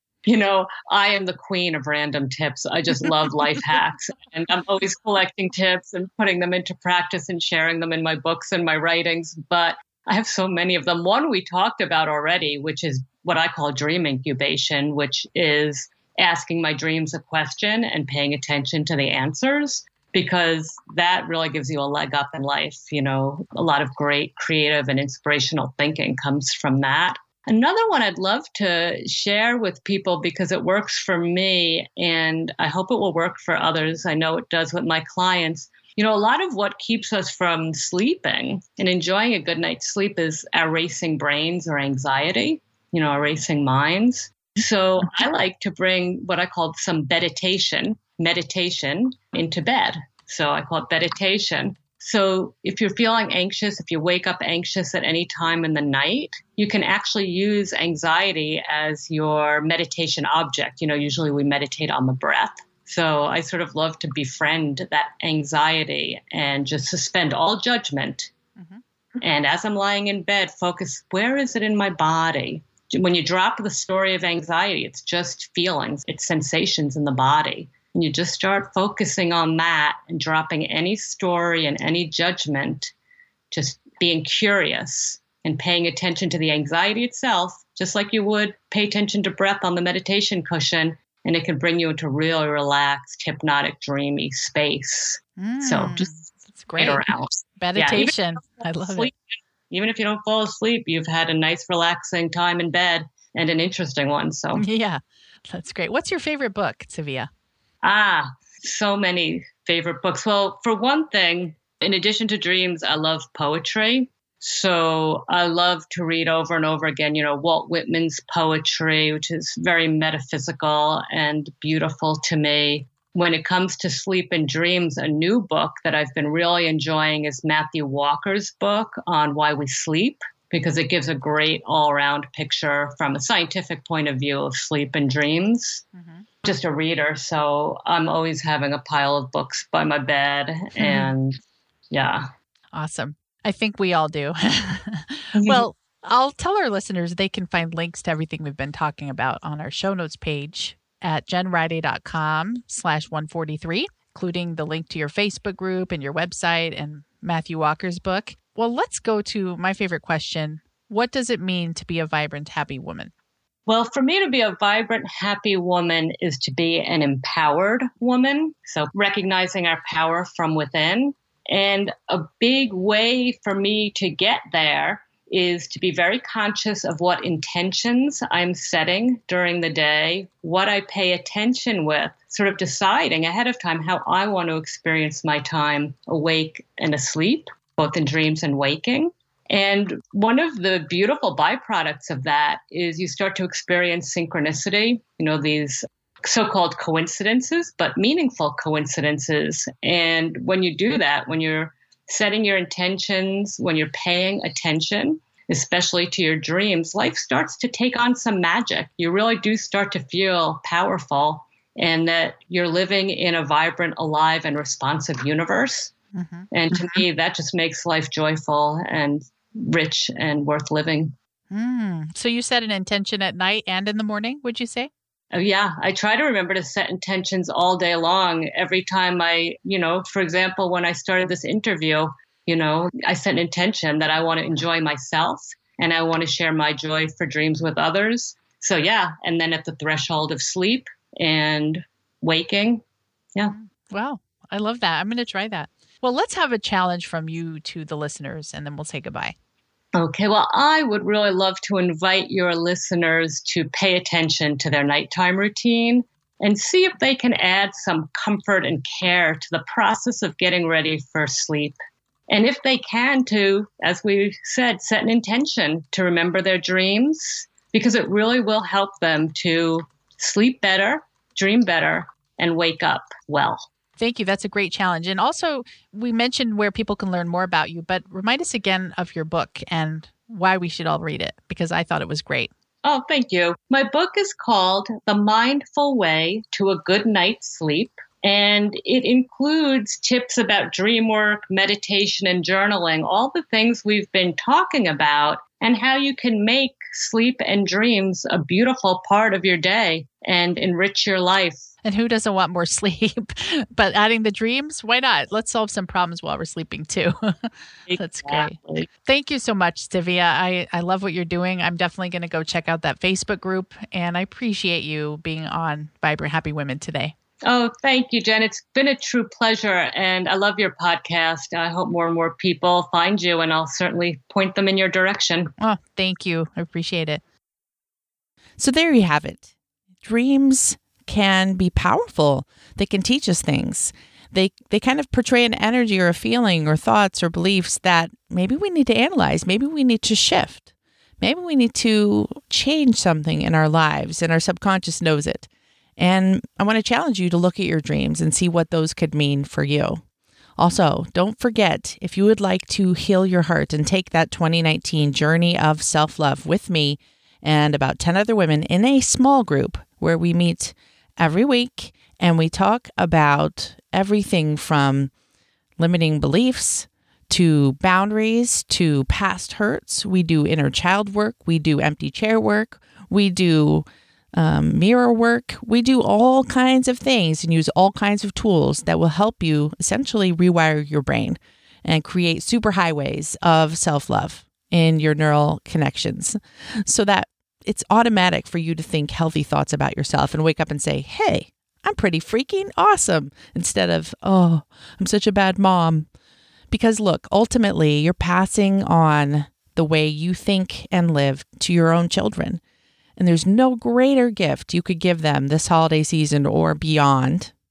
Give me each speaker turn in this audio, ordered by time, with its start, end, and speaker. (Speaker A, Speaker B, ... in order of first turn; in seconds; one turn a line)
Speaker A: 0.2-68.3
Speaker B: 68.5-68.8
Speaker A: 69.2-82.9
Speaker A: 83.5-96.1
Speaker B: 95.4-97.0
Speaker A: 96.8-99.1
Speaker B: 97.6-99.1
Speaker A: 99.7-104.7
Speaker B: 104.5-107.3
Speaker A: 107.8-135.8
Speaker B: 135.9-136.3
Speaker A: 136.4-141.4
Speaker B: 140.8-141.1
Speaker A: 141.9-142.3
Speaker B: 142.7-163.1
Speaker A: 145.3-145.7
Speaker A: 163.7-215.9
Speaker B: 216.1-216.5
Speaker A: 216.5-221.1
Speaker B: 221.5-224.9
Speaker A: 225.3-242.8
Speaker B: 243.5-249.3
Speaker A: 250.0-261.8
Speaker A: 262.3-273.7
Speaker B: 274.0-282.5
Speaker A: 282.8-301.6
Speaker B: 301.8-317.1
Speaker A: 307.9-308.9
Speaker A: 317.4-325.5
Speaker B: 325.6-327.2
Speaker C: 328.6-329.5
Speaker C: 330.0-340.6
Speaker C: 341.2-350.0
Speaker C: 350.6-365.1
Speaker C: 365.8-396.1
Speaker C: 396.7-402.6
Speaker C: 403.2-407.5